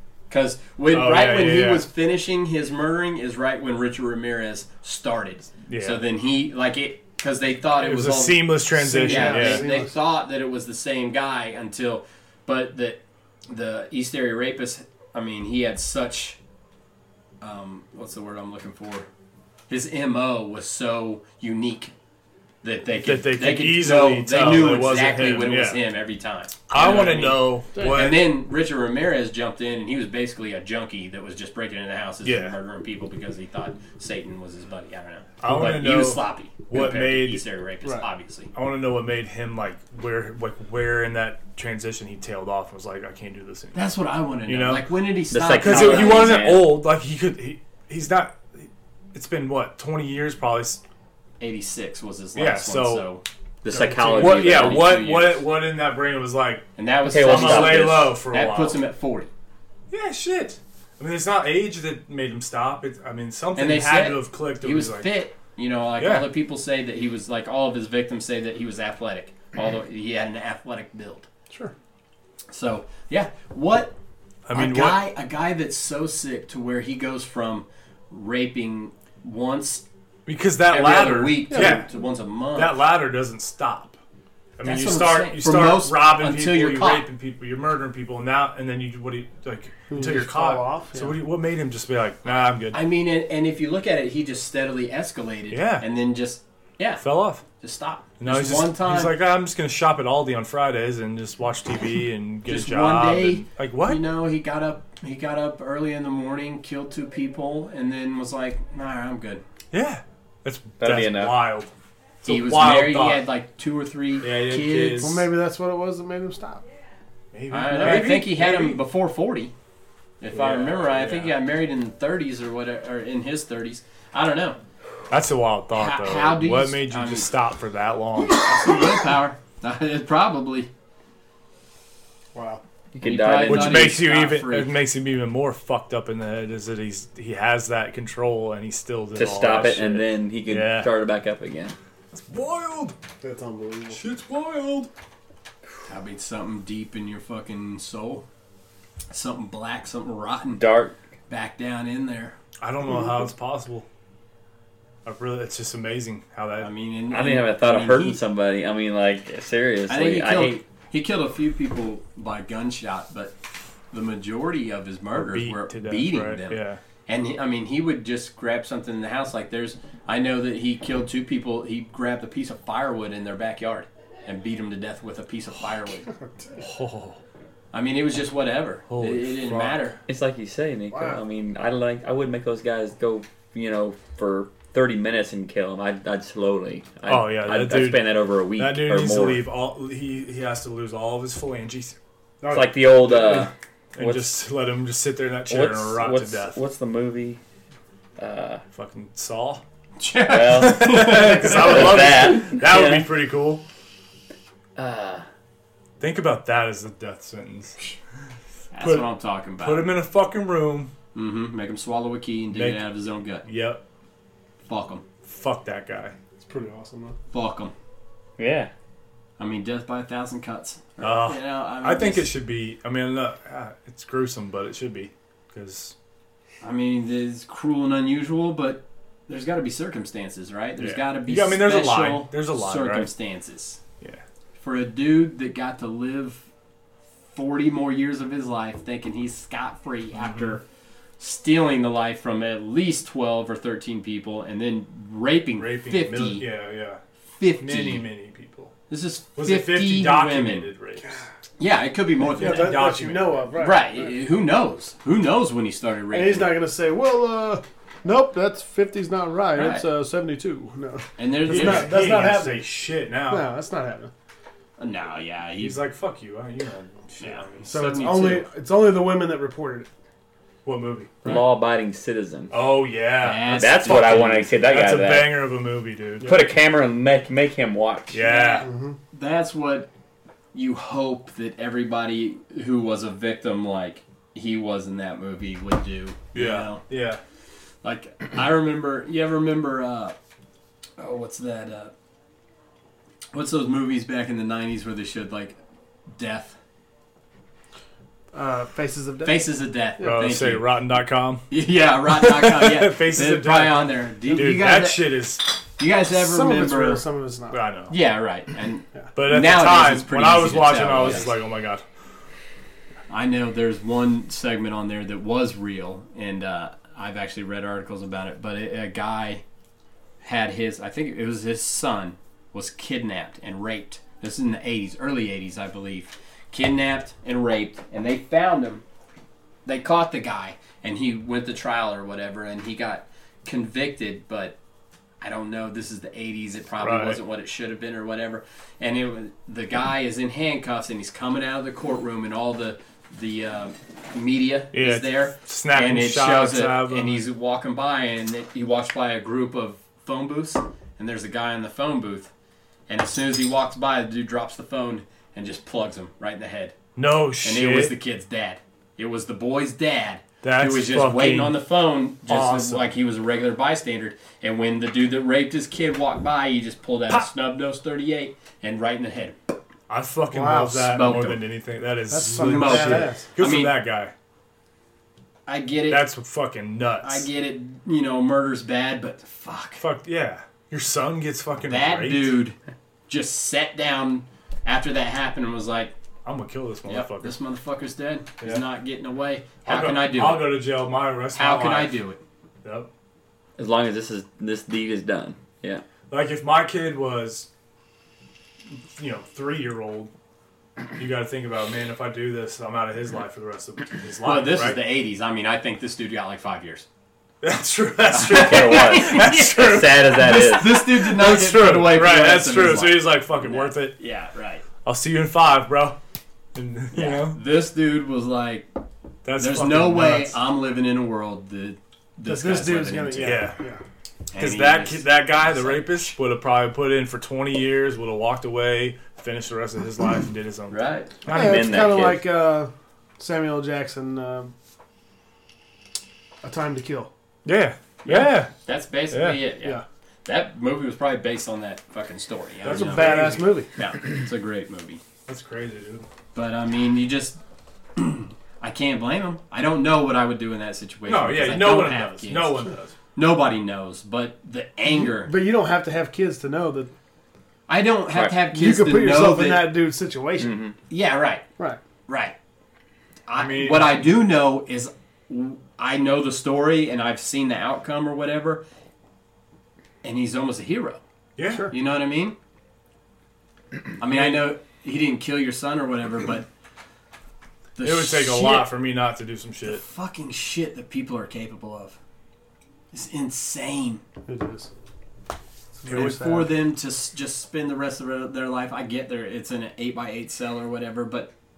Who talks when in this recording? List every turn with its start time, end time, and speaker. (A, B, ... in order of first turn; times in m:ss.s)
0:00.3-0:16.4 A
0:00.9-0:01.9 B
0:05.7-0:06.0 B
0:07.8-0:09.7 B
0:08.7-0:10.0 C
0:17.4-0:19.1 A
0:19.7-0:21.9 A
0:22.6-0:38.5 A
0:23.0-0:25.8 B
0:26.7-0:28.3 B
0:27.8-0:28.0 C
0:32.2-0:32.6 B
0:35.4-0:37.4 B
0:38.5-0:43.8 B
0:43.7-0:46.4 A
0:44.5-0:44.9 B
0:45.3-0:46.8 D
0:45.5-0:50.8 B
0:51.4-0:53.2 A
0:52.4-0:53.1 B
0:53.6-0:55.0 D
0:53.7-0:54.2 C
0:53.8-0:55.4 A
0:54.2-0:58.8 B
0:56.8-0:59.3 A
0:57.1-0:58.1 D
0:59.9-1:05.1 B
1:03.6-1:11.3 A
1:06.0-1:06.3 B
1:12.5-1:14.0 A
1:14.5-1:15.0 B
1:14.5-1:19.8 A
1:20.3-1:21.9 B
1:20.7-1:22.8 A
1:21.5-1:21.8 C
1:22.5-1:24.0 B
1:24.6-1:32.8 B
1:24.6-1:27.1 A
1:29.9-1:31.2 C
1:32.7-1:37.0 A
1:35.5-1:35.9 B
1:37.0-1:37.4 B
1:37.6-1:39.2 A
1:38.2-1:44.0 B
1:42.5-1:49.4 A
1:49.7-1:53.2 B
1:50.8-1:51.4 D
1:52.2-1:55.1 A
1:54.2-1:55.3 B
1:55.0-1:56.6 C
1:57.3-1:58.8 B
1:57.5-1:59.5 A
2:00.2-2:04.6 A
2:00.3-2:01.3 B
2:05.1-2:08.5 B
2:05.7-2:07.3 A
2:08.3-2:10.7 A
2:12.3-2:12.6 C
2:12.9-2:14.0 D
2:13.0-2:14.7 A
2:13.4-2:20.9 B
2:19.2-2:21.8 D
2:22.1-2:23.0 B
2:23.2-2:24.0 C
2:23.9-2:24.9 B
2:25.9-2:28.2 A
2:29.1-2:30.6 A
2:30.6-2:31.0 D
2:31.3-2:32.4 A
2:32.6-2:33.9 B
2:35.0-2:36.7 B
2:36.6-2:38.2 A
2:37.1-2:40.6 D
2:39.9-2:43.3 A
2:43.9-2:56.1 A
2:45.2-2:46.8 B
2:56.2-2:56.7 C
2:56.6-2:57.2 B
2:57.7-3:00.0 A
2:58.9-2:59.9 B
3:00.1-3:09.4 D
3:00.9-3:01.2 C
3:07.1-3:12.0 B
3:12.4-3:13.5 C
3:12.5-3:14.4 D
3:14.0-3:16.6 B
3:15.5-3:17.4 D
3:18.2-3:18.6 D
3:18.7-3:19.6 B
3:20.0-3:22.1 A
3:20.2-3:23.1 D
3:20.5-3:23.6 B
3:24.8-3:25.3 D
3:26.0-3:27.8 B
3:28.7-3:29.9 A
3:28.8-3:29.1 B
3:29.6-3:30.9 B
3:31.1-3:33.5 A
3:32.5-3:32.9 B
3:33.4-3:33.8 B
3:34.7-3:35.0 A
3:35.2-3:36.2 B
3:36.4-3:37.2 C
3:37.3-3:37.7 A
3:38.4-3:38.7 D
3:39.4-3:42.3 A
3:41.0-3:45.9 B
3:46.6-3:53.8 A
3:50.8-3:53.1 B
3:54.6-3:56.5 A
3:57.3-4:00.6 A
4:00.2-4:00.5 B
4:01.2-4:06.4 A
4:05.6-4:07.0 B
4:07.4-4:08.1 A
4:07.6-4:08.7 B
4:08.9-4:10.7 A
4:09.4-4:11.2 B
4:11.6-4:12.8 A
4:12.4-4:14.1 C
4:12.4-4:13.4 B
4:13.6-4:16.5 A
4:16.1-4:22.7 C
4:19.5-4:19.9 A
4:21.2-4:22.2 A
4:21.5-4:23.5 B
4:23.3-4:24.1 C
4:24.8-4:25.8 A
4:25.6-4:27.7 B
4:27.2-4:28.5 A
4:27.7-4:29.9 C
4:30.6-4:31.4 B
4:31.2-4:32.5 D
4:32.5-4:36.4 B
4:33.2-4:34.5 A
4:33.5-4:35.4 D
4:36.2-4:38.2 D
4:38.1-4:38.7 B
4:38.2-4:39.9 A
4:38.6-4:39.0 C
4:40.5-4:46.8 A
4:46.3-4:47.2 B
4:47.8-4:50.2 A
4:51.0-4:51.9 A
4:53.3-4:55.6 A
4:56.1-4:56.6 A
4:58.3-4:59.5 C
4:59.2-5:00.7 A
5:00.0-5:00.3 C
5:00.0-5:01.5 B
5:01.5-5:05.2 A
5:02.0-5:05.5 B
5:04.3-5:04.6 C
5:05.8-5:07.0 A
5:06.1-5:07.6 C
5:07.5-5:08.0 B
5:07.9-5:11.4 A
5:09.2-5:11.8 B
5:13.1-5:19.4 A
5:20.2-5:28.8 A
5:29.7-5:34.6 A
5:35.2-5:52.3 A
5:36.8-5:37.2 B
5:44.7-5:47.3 B
5:52.9-5:56.8 A
5:57.0-5:57.9 B
5:57.4-6:09.6 A
6:00.4-6:01.6 B
6:02.3-6:02.9 B
6:09.9-6:14.1 B
6:10.3-6:11.2 C
6:10.9-6:11.4 A
6:12.1-6:13.3 C
6:12.4-6:13.8 A
6:15.5-6:16.0 A
6:15.9-6:17.3 B
6:17.0-6:19.8 A
6:19.8-6:22.4 B
6:21.7-6:22.6 A
6:23.1-6:25.9 A
6:26.2-6:27.4 B
6:26.9-6:30.6 A
6:29.7-6:32.0 B
6:31.4-6:32.2 A
6:32.6-6:32.9 B
6:33.6-6:35.8 D
6:36.1-6:37.5 B
6:38.9-6:40.1 B
6:41.0-6:44.8 B
6:44.2-6:46.9 A
6:47.4-6:54.0 B
6:48.1-6:54.6 A
6:48.2-6:50.9 D
6:54.8-6:56.0 B
6:56.6-6:57.4 B
6:56.9-6:58.7 A
6:59.2-7:00.4 B
6:59.4-7:03.4 A
7:02.2-7:03.8 C
7:03.2-7:03.6 B
7:04.3-7:06.1 A
7:04.4-7:12.0 B
7:10.7-7:11.1 A
7:11.3-7:14.5 C
7:11.3-7:12.2 D
7:16.4-7:17.1 C
7:17.4-7:18.5 B
7:18.0-7:25.0 A
7:19.1-7:19.4 B
7:22.6-7:23.6 B
7:22.6-7:23.7 C
7:25.3-7:26.1 B
7:26.3-7:27.4 A
7:28.0-7:35.3 A
7:31.1-7:32.9 B
7:34.9-7:36.9 C
7:37.7-7:39.8 A
7:38.4-7:40.6 C
7:40.4-7:40.8 D
7:40.9-7:41.4 A
7:42.1-7:42.4 A
7:43.3-7:48.6 A
7:43.3-7:44.1 B
7:50.0-7:51.0 A
7:51.4-7:51.7 B
7:51.4-7:51.7 C
7:51.7-7:52.4 A
7:54.0-7:56.5 A
7:54.1-7:54.5 B
7:57.8-7:58.7 A
7:57.8-7:59.8 B
7:59.6-8:02.0 A
8:02.9-8:04.0 A
8:04.3-8:04.7 C
8:05.8-8:06.5 C
8:05.9-8:06.1 B
8:05.9-8:11.3 A